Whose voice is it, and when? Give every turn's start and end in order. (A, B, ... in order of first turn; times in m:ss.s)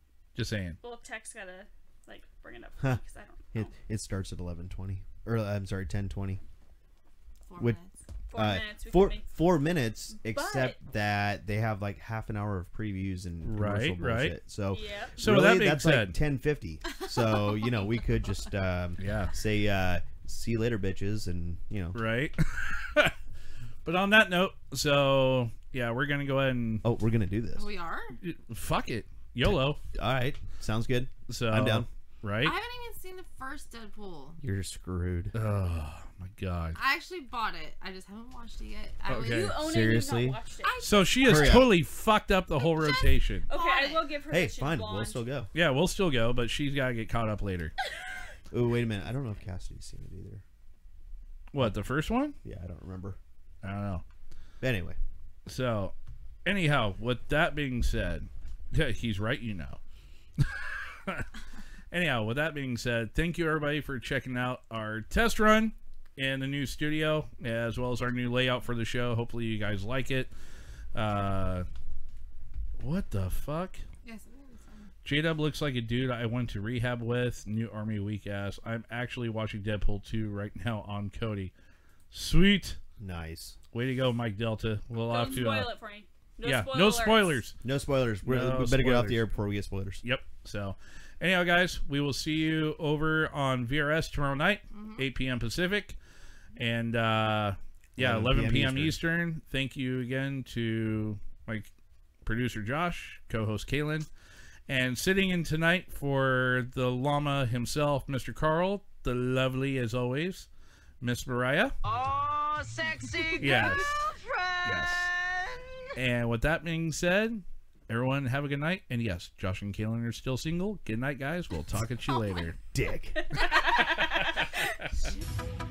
0:00.4-0:00.8 A
0:00.8-0:03.7 B
0:03.5-0:06.4 C
0:07.5-0:08.0 D
0:08.3-0:09.4 B
0:08.3-0:22.0 C
0:10.1-0:10.8 B
0:13.4-0:14.4 A
0:14.7-0:15.2 B
0:15.2-0:16.2 A
0:19.0-0:19.4 A
0:21.9-0:23.1 A
0:23.8-0:26.8 A
0:26.8-0:27.7 C
0:27.6-0:28.2 D
0:28.2-0:29.8 A
0:29.4-0:31.9 C
0:31.3-0:32.6 A
0:32.4-0:34.4 D
0:34.4-0:35.4 C
0:35.3-0:36.8 A
0:36.8-0:39.5 D
0:39.1-0:39.6 A
0:39.3-0:40.9 B
0:39.6-0:40.4 C
0:40.6-0:41.7 D
0:40.8-0:43.5 A
0:41.2-0:41.8 C
0:42.6-0:44.2 D
0:43.5-0:45.3 B
0:44.3-0:45.5 C
0:45.5-0:47.7 A
0:48.5-0:50.4 C
0:51.5-0:52.4 A
0:52.4-0:53.2 C
0:53.6-0:54.0 A
0:54.6-0:55.0 C
0:55.5-0:55.9 A
0:56.4-0:59.8 A
1:00.4-1:01.3 A
1:01.9-1:10.3 A
1:10.9-1:11.7 A
1:12.8-1:13.8 A
1:14.0-1:14.9 D
1:15.0-1:21.5 A
1:22.1-1:22.8 A
1:23.0-1:23.6 C
1:23.7-1:25.7 A
1:25.1-1:27.4 B
1:26.4-1:27.6 A
1:27.6-1:30.0 C
1:28.2-1:29.2 A
1:30.0-1:36.0 A
1:34.7-1:35.1 D
1:36.6-1:41.7 A
1:38.0-1:39.0 C
1:42.2-1:44.1 A
1:44.7-1:50.5 A
1:51.0-1:51.8 A
1:51.9-1:55.6 E
1:53.4-1:54.0 A
1:53.4-1:53.8 D
1:54.6-1:55.1 A
1:56.0-2:02.6 A
2:02.7-2:03.4 C
2:03.4-2:04.4 B